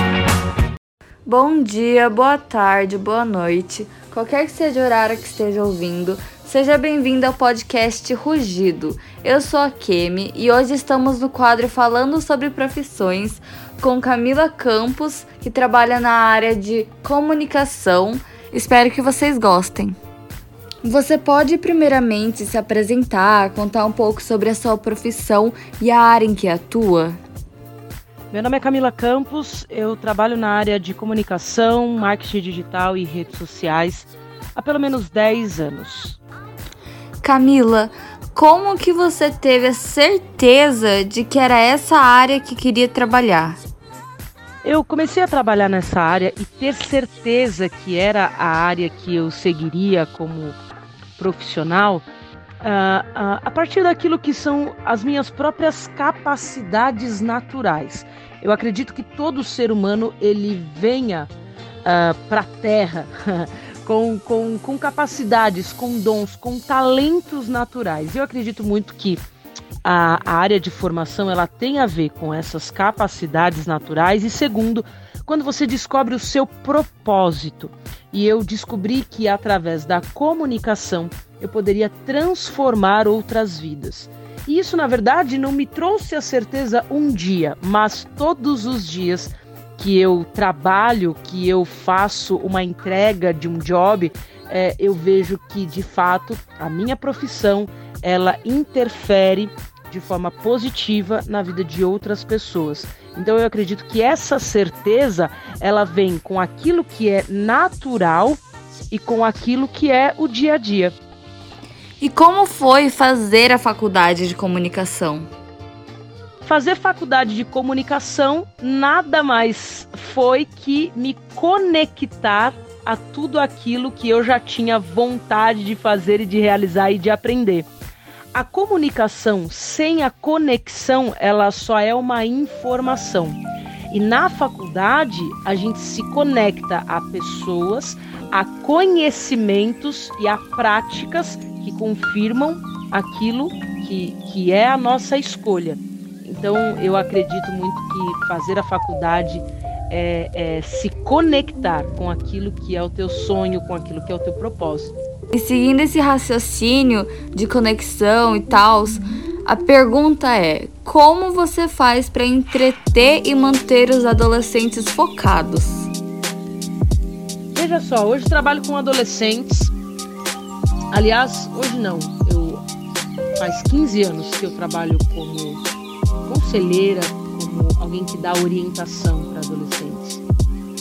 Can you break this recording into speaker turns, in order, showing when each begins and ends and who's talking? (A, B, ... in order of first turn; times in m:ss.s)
0:01.2-0:20.0 A
0:20.8-0:27.2 A
0:28.3-0:36.2 B
0:37.2-0:43.6 A
0:44.6-0:50.6 B
0:51.2-0:52.0 B
0:52.6-1:01.3 B
1:01.8-1:09.2 B
1:09.8-1:51.0 B
1:52.0-1:55.3 A
1:56.4-2:07.7 B
2:08.3-2:34.9 B
2:35.3-2:45.9 A
2:47.5-2:49.7 B
2:50.9-2:52.6 B
2:53.4-2:55.6 B
2:56.2-3:00.2 B